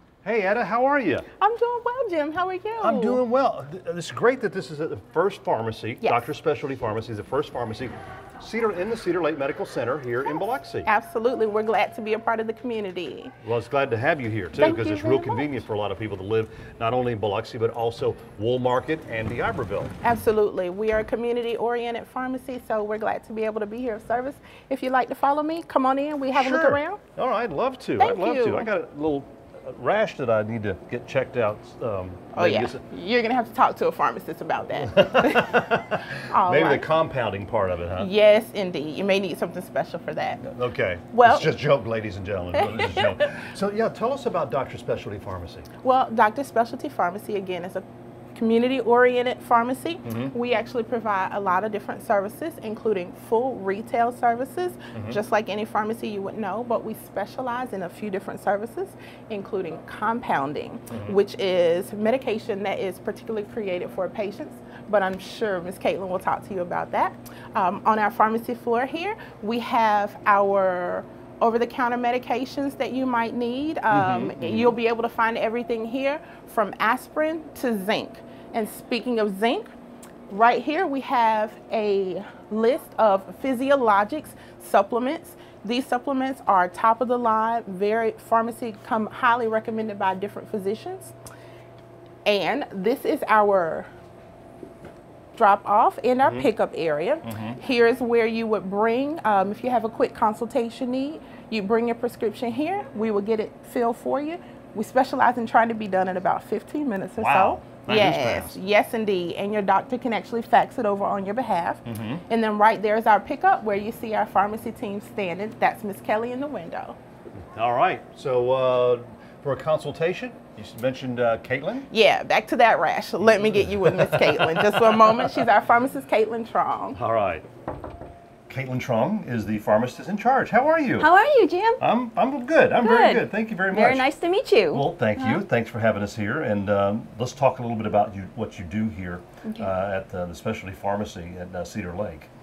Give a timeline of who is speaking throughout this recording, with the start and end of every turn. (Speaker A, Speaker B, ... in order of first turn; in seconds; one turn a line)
Speaker A: 0.2-1.2
Speaker B: 1.4-3.2
Speaker A: 2.8-10.9
Speaker B: 6.0-6.3
Speaker B: 10.8-13.3
Speaker A: 13.4-19.9
Speaker B: 14.6-15.5
Speaker B: 20.0-27.0
Speaker A: 26.3-32.8
Speaker B: 28.0-28.7
Speaker B: 32.3-35.6
Speaker A: 34.8-38.1
Speaker B: 36.2-36.9
Speaker B: 38.0-40.5
Speaker A: 40.4-45.7
Speaker B: 41.1-41.5
Speaker B: 42.6-43.1
Speaker B: 45.8-47.8
Speaker B: 48.3-79.7
Speaker A: 50.0-50.3
Speaker A: 60.9-61.1
Speaker A: 73.9-74.8
Speaker B: 80.3-91.1
Speaker B: 92.2-93.9
Speaker B: 95.3-117.0
Speaker A: 97.2-97.6
Speaker A: 107.2-108.6
Speaker A: 111.8-112.2
Speaker A: 117.5-121.9
Speaker B: 121.9-127.0
Speaker A: 123.7-125.2
Speaker A: 126.9-127.4
Speaker A: 128.5-131.1
Speaker C: 131.0-131.8
Speaker A: 131.8-134.1
Speaker C: 132.7-135.4
Speaker A: 134.7-142.3
Speaker C: 139.4-139.7